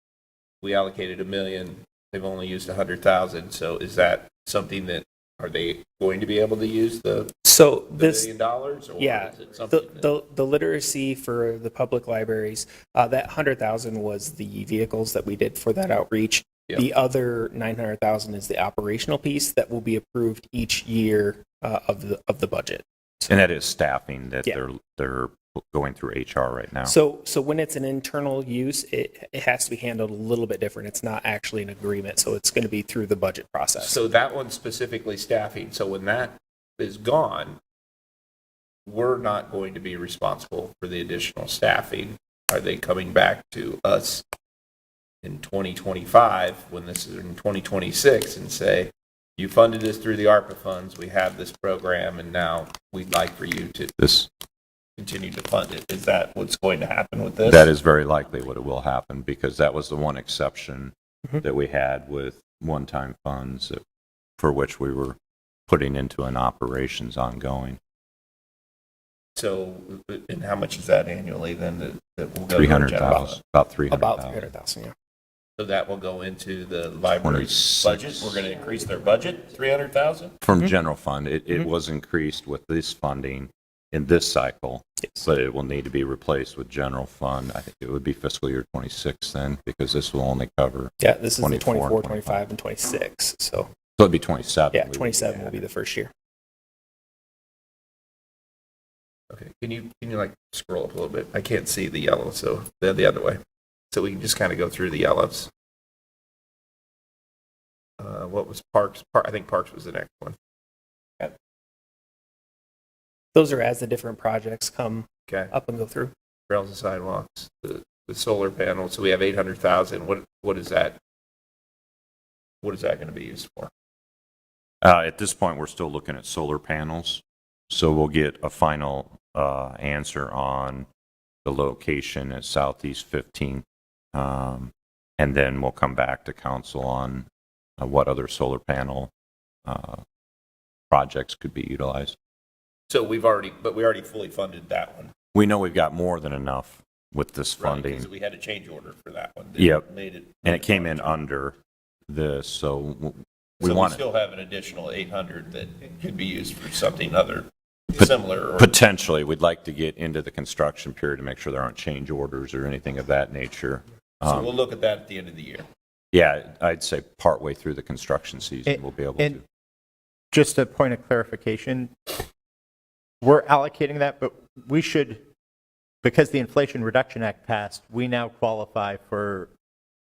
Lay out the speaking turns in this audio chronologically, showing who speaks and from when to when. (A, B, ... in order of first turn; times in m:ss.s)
0:00.6-0:07.4 A
0:07.4-0:08.3 B
0:07.9-0:10.1 A
0:09.0-0:23.5 B
0:23.3-0:27.0 C
0:26.8-0:34.0 B
0:33.8-0:37.6 A
0:38.9-0:44.2 A
0:45.2-0:54.0 A
0:54.0-0:54.3 C
0:55.0-0:57.7 A
0:57.4-1:03.8 C
1:04.4-1:05.2 C
1:05.7-1:07.8 C
1:09.4-1:13.4 A
1:12.5-1:14.4 C
1:13.9-1:14.9 B
1:15.6-1:20.4 A
1:17.2-1:18.4 C
1:20.4-1:32.4 C
1:31.0-1:33.7 B
1:34.0-1:35.6 C
1:34.7-1:36.1 B
1:39.3-1:45.5 A
1:48.0-1:50.4 A
1:53.3-1:56.1 B
1:55.3-1:55.5 A
1:56.5-2:01.0 A
2:02.6-2:03.7 A
2:04.8-2:10.9 C
2:11.4-2:17.3 C
2:17.8-2:19.1 C
2:19.7-2:20.0 C
2:20.9-2:22.2 C
2:22.9-2:25.1 A
2:25.3-2:28.1 C
2:27.6-2:31.2 A
2:29.6-2:29.9 C
2:30.4-2:31.6 C
2:32.1-2:34.0 C
2:33.6-2:38.7 A
2:38.0-2:44.5 C
2:44.2-2:45.7 A
2:46.1-2:49.4 C
2:48.7-2:49.4 D
2:50.3-2:52.2 D
2:53.2-2:55.2 D
2:56.0-2:59.5 D